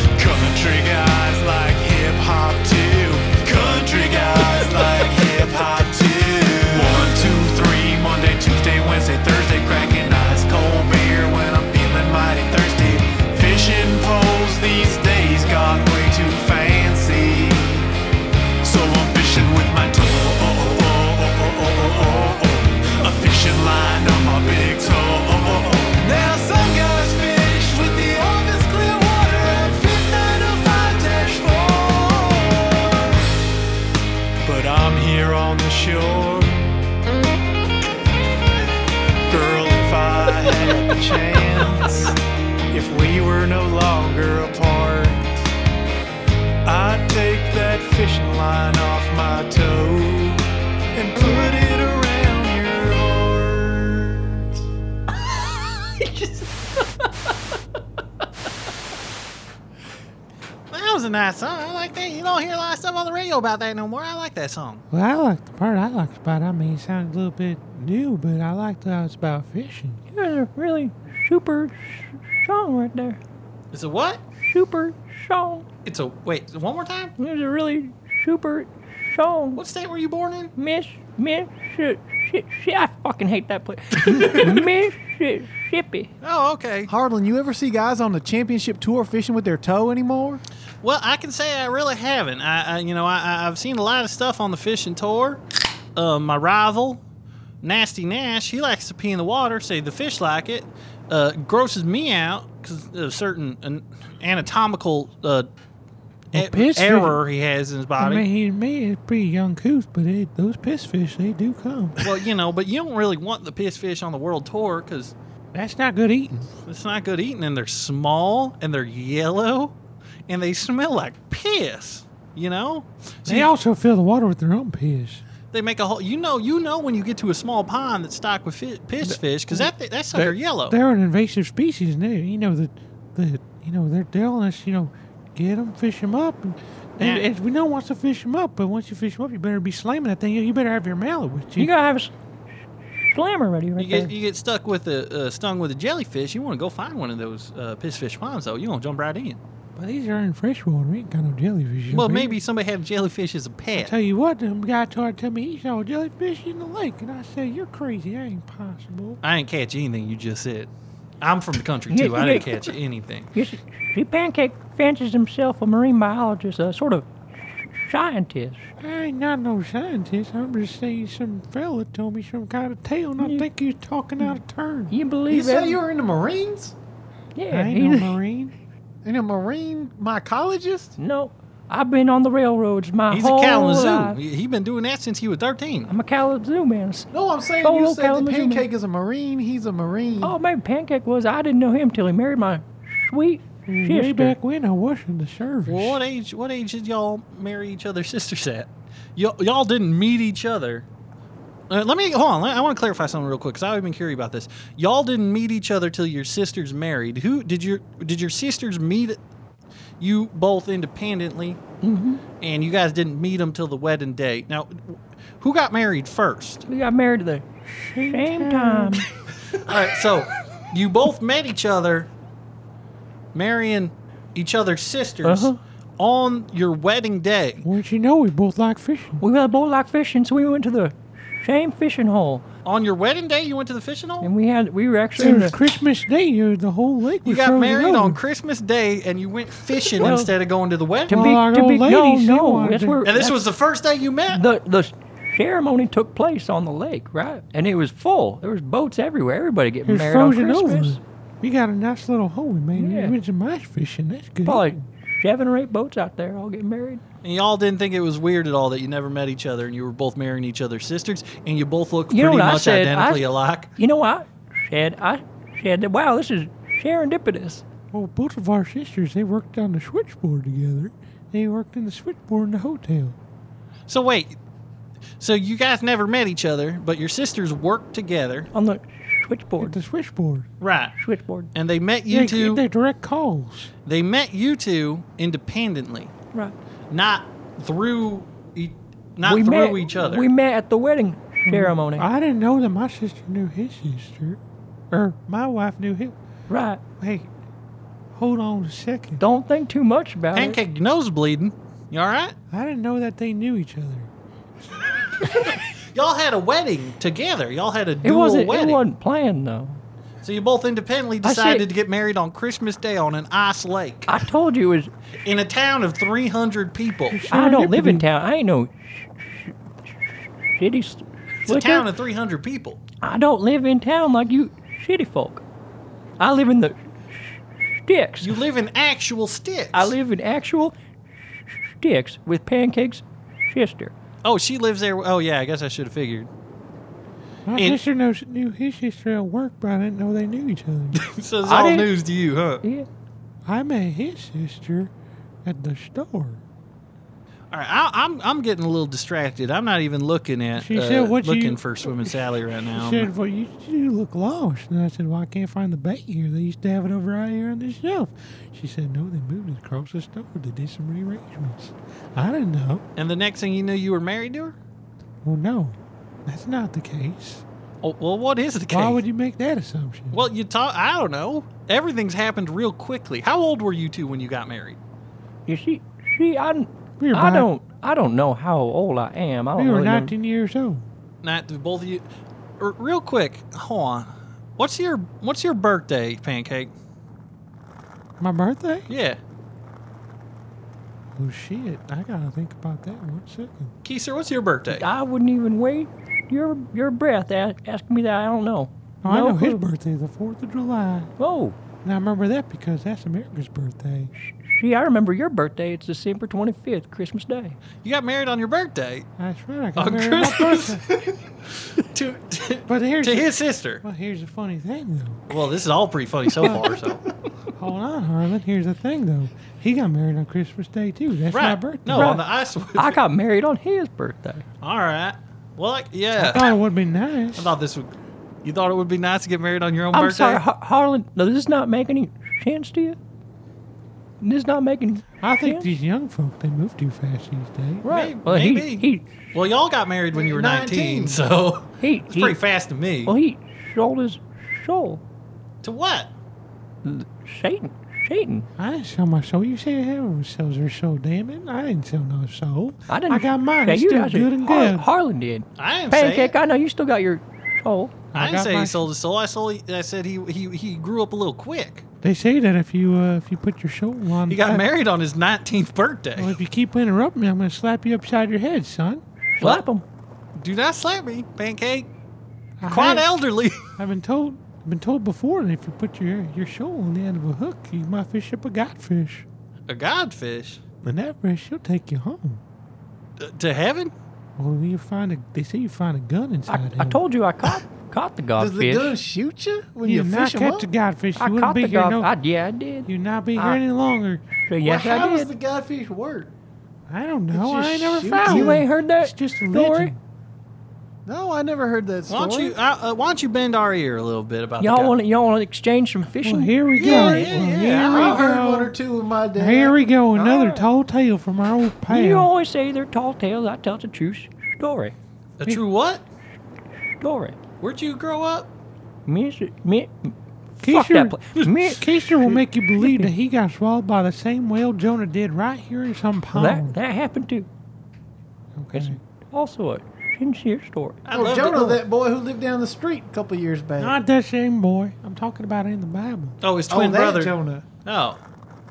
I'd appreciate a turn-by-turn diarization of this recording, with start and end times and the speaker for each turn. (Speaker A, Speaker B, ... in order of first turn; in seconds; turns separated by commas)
Speaker A: 0.1-17.8, Speaker A: 18.6-33.2, Speaker A: 34.4-36.7, Speaker A: 39.3-42.2, Speaker A: 42.7-45.3, Speaker A: 46.6-50.4, Speaker A: 50.9-54.2, Speaker B: 60.7-64.8, Speaker C: 64.9-70.0, Speaker D: 70.1-73.2, Speaker B: 73.7-74.2, Speaker D: 74.4-75.7, Speaker B: 75.8-77.1, Speaker D: 77.2-79.6, Speaker B: 79.5-80.5, Speaker D: 80.5-86.1, Speaker B: 84.1-84.5, Speaker B: 86.2-86.9, Speaker E: 86.9-90.4, Speaker B: 90.8-95.4, Speaker B: 96.0-97.0, Speaker B: 97.6-105.5, Speaker B: 106.3-108.3, Speaker C: 106.3-107.2, Speaker C: 108.0-112.0, Speaker B: 112.0-115.1, Speaker C: 115.5-116.5, Speaker B: 116.7-119.7, Speaker B: 120.3-123.5, Speaker C: 123.2-125.2, Speaker B: 125.5-130.8, Speaker C: 129.0-141.7, Speaker B: 137.0-137.3, Speaker D: 141.6-142.1, Speaker D: 142.9-144.1, Speaker B: 143.8-149.4, Speaker C: 149.8-152.4, Speaker B: 151.9-153.9, Speaker C: 153.8-159.2, Speaker B: 159.2-160.7, Speaker B: 161.2-163.3, Speaker D: 161.9-162.7, Speaker D: 163.3-168.7, Speaker C: 168.8-174.9, Speaker D: 173.2-173.4, Speaker D: 174.2-175.8, Speaker E: 175.3-176.7, Speaker D: 177.3-178.2, Speaker C: 177.5-178.5, Speaker E: 179.0-180.9, Speaker D: 181.0-184.2, Speaker B: 183.1-185.9, Speaker D: 185.9-187.1, Speaker E: 187.1-190.3, Speaker D: 187.6-188.7, Speaker D: 190.2-194.3, Speaker C: 193.7-196.0, Speaker B: 195.7-200.8, Speaker B: 201.7-209.2, Speaker B: 210.0-211.6, Speaker D: 211.8-212.2, Speaker B: 212.4-216.6, Speaker D: 216.7-217.4, Speaker C: 217.7-219.1, Speaker D: 218.0-219.1, Speaker B: 219.5-222.1, Speaker B: 223.3-227.7, Speaker D: 225.2-225.6, Speaker C: 227.6-229.2, Speaker D: 229.2-232.4, Speaker B: 232.6-234.3, Speaker D: 234.2-235.6, Speaker C: 235.2-238.2, Speaker B: 237.2-241.3, Speaker D: 240.0-240.3, Speaker C: 241.1-243.0, Speaker D: 241.1-243.4, Speaker B: 243.0-244.4, Speaker D: 244.3-251.0, Speaker C: 249.8-254.8, Speaker D: 252.7-253.2, Speaker D: 254.4-257.0, Speaker B: 257.2-263.7, Speaker D: 262.1-267.6, Speaker C: 267.9-273.1, Speaker B: 273.9-274.4, Speaker B: 275.2-278.5, Speaker D: 278.5-279.8, Speaker C: 279.6-280.5, Speaker B: 280.6-280.9, Speaker D: 281.0-281.5, Speaker B: 281.5-282.6, Speaker C: 282.1-283.7, Speaker B: 283.9-286.1, Speaker B: 286.9-290.3, Speaker D: 289.2-292.1, Speaker C: 291.4-294.4, Speaker C: 294.9-296.1, Speaker D: 296.5-296.8, Speaker C: 297.0-297.3, Speaker C: 298.1-299.2, Speaker D: 299.2-300.6, Speaker B: 300.3-302.3, Speaker C: 302.5-304.1, Speaker B: 305.2-308.8, Speaker D: 308.0-309.8, Speaker B: 310.2-314.2, Speaker D: 311.2-311.6, Speaker D: 314.1-314.9, Speaker B: 315.2-317.3, Speaker C: 317.1-318.0, Speaker D: 317.3-321.9, Speaker B: 321.4-322.8, Speaker D: 323.0-325.4, Speaker D: 326.2-328.3, Speaker B: 328.2-329.9, Speaker D: 329.7-330.8, Speaker D: 331.3-333.9, Speaker B: 334.2-336.3, Speaker C: 337.4-341.0, Speaker B: 337.6-337.8, Speaker B: 340.9-342.6, Speaker D: 341.4-341.9, Speaker C: 343.4-344.9, Speaker C: 345.4-346.4, Speaker B: 347.5-353.1, Speaker C: 350.6-362.8, Speaker B: 362.9-364.5, Speaker C: 365.2-367.4, Speaker B: 367.8-369.0, Speaker C: 368.7-370.2, Speaker B: 370.1-374.8, Speaker D: 375.4-380.1, Speaker C: 377.0-377.5, Speaker C: 379.6-380.9, Speaker B: 381.2-382.0, Speaker B: 382.6-386.7, Speaker C: 388.2-388.9, Speaker B: 388.9-389.2, Speaker C: 391.1-393.7, Speaker B: 393.8-394.8, Speaker D: 394.7-399.6, Speaker C: 399.0-401.1, Speaker D: 401.2-401.6, Speaker C: 401.8-404.1, Speaker D: 404.3-407.6, Speaker B: 407.8-409.1, Speaker C: 409.2-410.8, Speaker B: 409.8-413.8, Speaker C: 412.7-415.4, Speaker B: 415.3-417.2, Speaker C: 416.4-416.7, Speaker C: 417.5-422.2, Speaker B: 421.3-423.0, Speaker D: 421.9-422.2, Speaker D: 422.7-424.4, Speaker B: 424.6-426.6, Speaker C: 426.2-427.5, Speaker B: 427.4-427.9, Speaker B: 428.4-430.4, Speaker D: 429.9-433.0, Speaker D: 434.2-435.7, Speaker C: 435.2-437.8, Speaker D: 437.8-439.2, Speaker B: 437.9-443.1, Speaker E: 440.1-441.2, Speaker D: 441.8-442.4, Speaker D: 443.1-445.0, Speaker B: 445.6-446.1, Speaker D: 446.8-448.5, Speaker C: 448.6-454.9, Speaker D: 452.9-457.9, Speaker B: 455.6-456.3, Speaker C: 458.1-458.9, Speaker B: 458.1-461.8, Speaker C: 462.0-464.6, Speaker B: 464.3-466.4, Speaker C: 466.1-469.0, Speaker D: 469.3-469.8, Speaker B: 470.4-471.9, Speaker C: 472.6-473.0, Speaker B: 472.7-473.6, Speaker C: 473.8-479.2, Speaker B: 479.7-480.6, Speaker C: 480.8-482.4, Speaker B: 483.2-483.9, Speaker C: 484.4-487.0, Speaker D: 486.5-489.0, Speaker E: 488.4-490.7, Speaker C: 489.8-492.1, Speaker D: 491.2-493.6, Speaker C: 492.8-494.2, Speaker D: 494.3-495.3, Speaker E: 494.6-496.3, Speaker C: 496.9-500.0, Speaker E: 497.3-498.6, Speaker D: 498.2-499.9, Speaker E: 501.1-502.6, Speaker B: 502.1-504.9, Speaker D: 504.6-507.2, Speaker C: 506.2-508.7, Speaker B: 506.7-508.2, Speaker E: 506.9-510.6, Speaker C: 509.4-512.3, Speaker D: 510.2-510.6, Speaker D: 511.9-514.9, Speaker B: 515.4-516.0, Speaker D: 517.0-517.4, Speaker B: 517.6-518.5, Speaker D: 519.0-523.1, Speaker C: 520.6-526.8, Speaker D: 526.3-527.5, Speaker C: 528.5-529.0, Speaker D: 528.7-531.0, Speaker B: 531.0-531.8, Speaker E: 531.1-534.0, Speaker C: 533.8-536.4, Speaker B: 536.4-538.2, Speaker E: 536.7-537.6